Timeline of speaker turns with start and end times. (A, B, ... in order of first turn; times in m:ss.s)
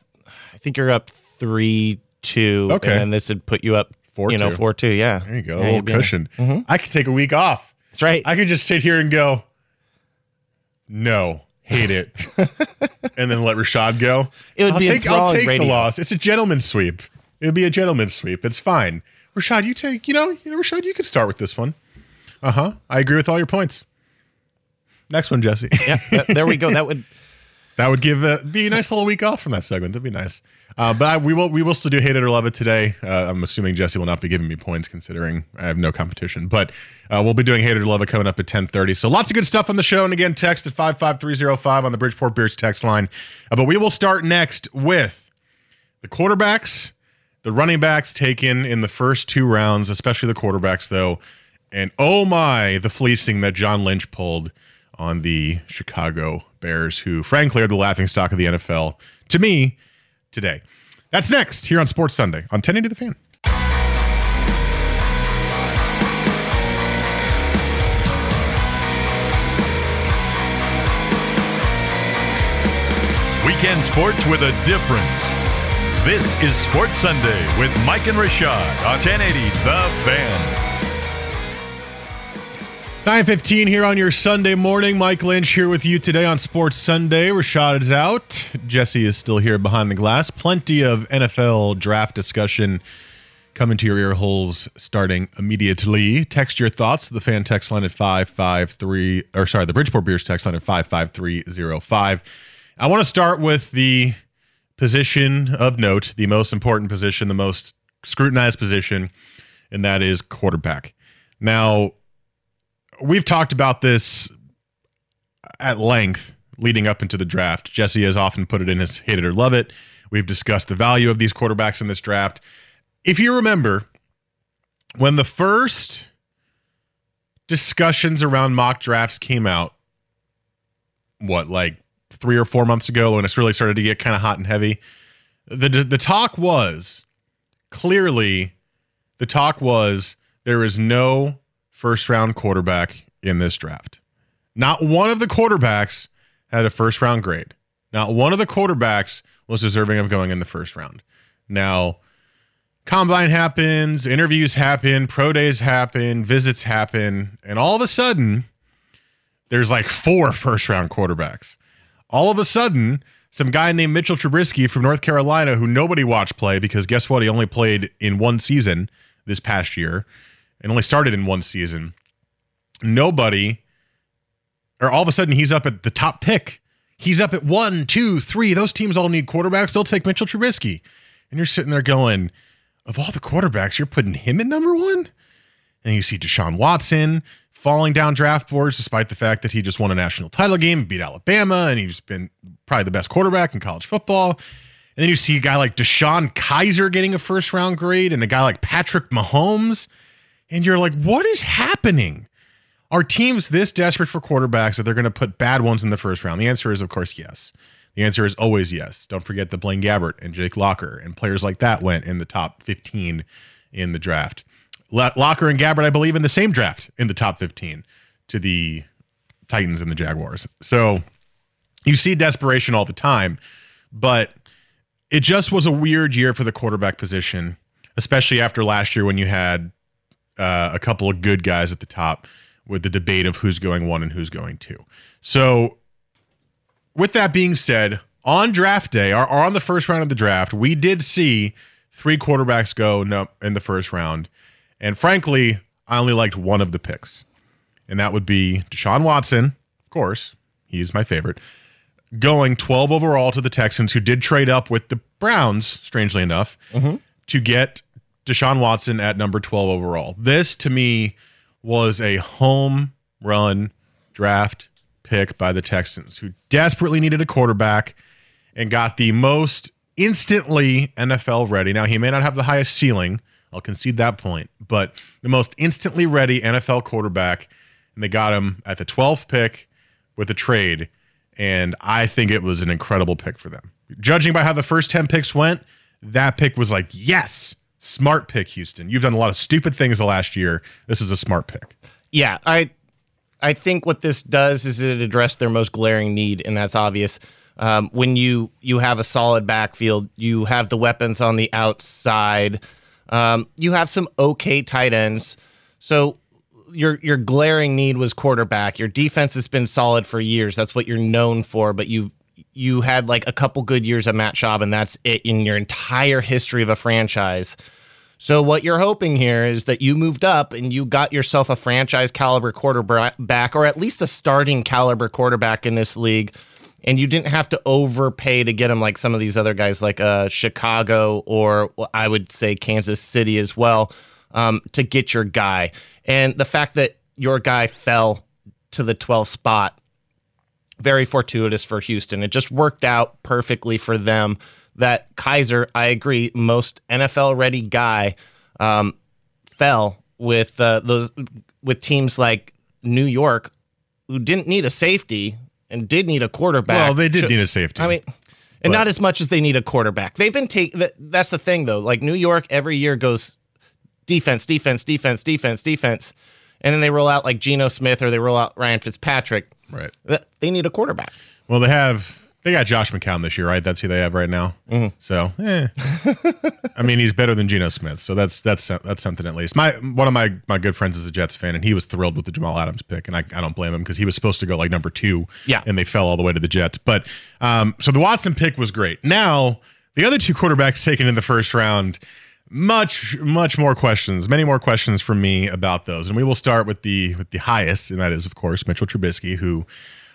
0:00.6-0:06.6 A
0:02.7-0:03.1 B
0:04.1-0:04.6 B
0:05.2-0:07.7 B
0:07.9-0:08.3 A
0:08.2-0:09.4 B
0:10.9-0:12.4 B
0:12.4-0:12.6 A
0:13.1-0:21.8 B
0:14.6-0:15.9 A
0:22.4-0:23.8 B
0:25.1-0:26.8 B
0:25.8-0:27.1 A
0:27.8-0:45.2 B
0:46.0-0:46.9 B
0:47.4-0:51.2 B
0:51.7-0:59.8 B
1:00.3-1:03.2 B
1:13.4-1:15.4 C
1:16.0-1:20.6 C
1:23.0-1:32.8 B
1:33.5-1:42.2 B
1:42.8-1:44.2 B
1:44.8-1:49.1 B
1:49.7-1:52.0 B
1:53.0-1:54.3 B
1:55.6-2:02.4 B
2:03.0-2:03.9 B
2:05.0-2:06.1 B
2:07.5-2:09.7 B
2:11.2-2:14.8 B
2:15.5-2:17.0 B
2:17.7-2:18.5 B
2:19.2-2:24.0 B
2:24.6-2:32.0 B
2:32.8-2:38.5 B
2:39.5-2:41.6 B
2:42.1-2:50.0 B
2:50.6-2:51.9 B
2:52.8-2:53.6 B
2:54.8-3:02.3 B
3:02.8-3:05.1 B
3:05.8-3:14.4 B
3:15.0-3:19.9 B
3:20.5-3:22.3 B
3:22.9-3:38.9 B
3:39.5-3:41.0 B
3:41.8-3:43.4 B
3:43.9-3:44.4 B
3:45.1-3:49.7 B
3:50.4-3:55.8 B
3:56.9-4:04.3 B
4:04.8-4:07.2 B
4:07.9-4:11.4 B
4:12.1-4:16.6 B
4:16.7-4:17.0 A
4:17.2-4:28.0 B
4:28.6-4:51.7 B
4:52.1-4:52.7 A
4:53.4-5:06.2 A
5:06.7-5:17.6 A
5:18.2-5:26.3 A
5:26.8-5:39.8 A
5:40.8-5:48.9 A
5:49.6-5:53.5 A
5:54.1-5:58.1 A
5:56.7-5:58.0 B
5:58.6-6:03.3 A
6:04.1-6:09.5 A
6:10.0-6:11.1 A
6:11.5-6:15.7 B
6:15.9-6:16.5 A
6:16.7-6:39.7 B